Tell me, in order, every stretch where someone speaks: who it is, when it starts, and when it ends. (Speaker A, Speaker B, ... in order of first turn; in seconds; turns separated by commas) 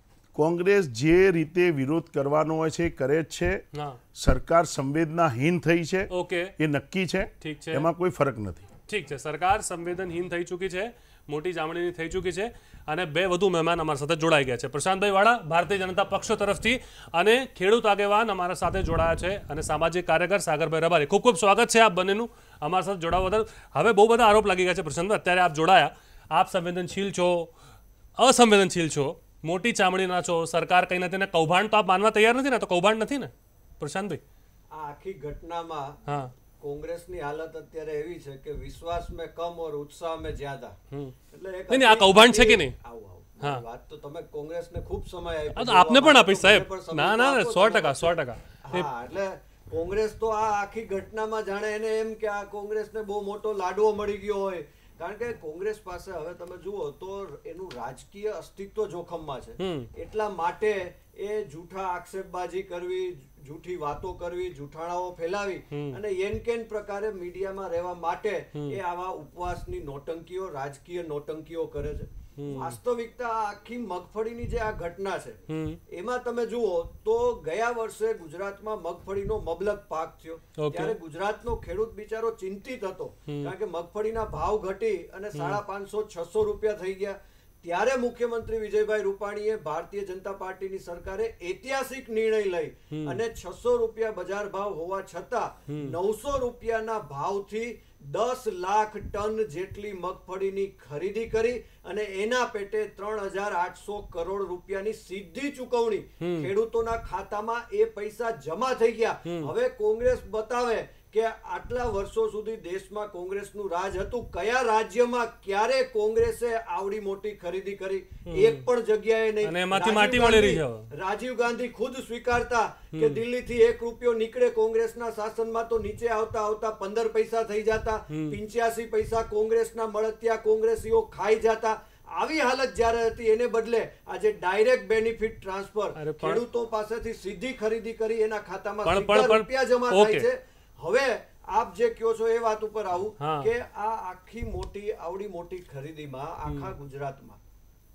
Speaker A: 0.3-3.6, Speaker B: 3.7-4.0, Speaker A: 4.2-8.7, Speaker B: 6.1-6.5, Speaker B: 7.4-7.9, Speaker B: 8.9-27.5, Speaker B: 28.2-34.2, Speaker C: 34.7-36.0, Speaker B: 36.1-36.3, Speaker C: 36.6-40.8, Speaker C: 41.3-147.4, Speaker B: 41.7-42.7, Speaker B: 45.5-48.9, Speaker B: 59.6-59.9, Speaker B: 65.7-66.0, Speaker B: 72.4-72.8, Speaker B: 75.5-75.8, Speaker B: 80.6-81.0, Speaker B: 85.3-85.6, Speaker B: 92.9-93.2, Speaker B: 95.7-95.9, Speaker B: 106.2-106.5, Speaker B: 109.2-109.5, Speaker B: 118.3-118.6, Speaker B: 119.4-120.9, Speaker B: 122.9-123.2, Speaker B: 128.1-128.4, Speaker B: 135.9-136.4, Speaker B: 138.8-140.2, Speaker B: 143.2-143.5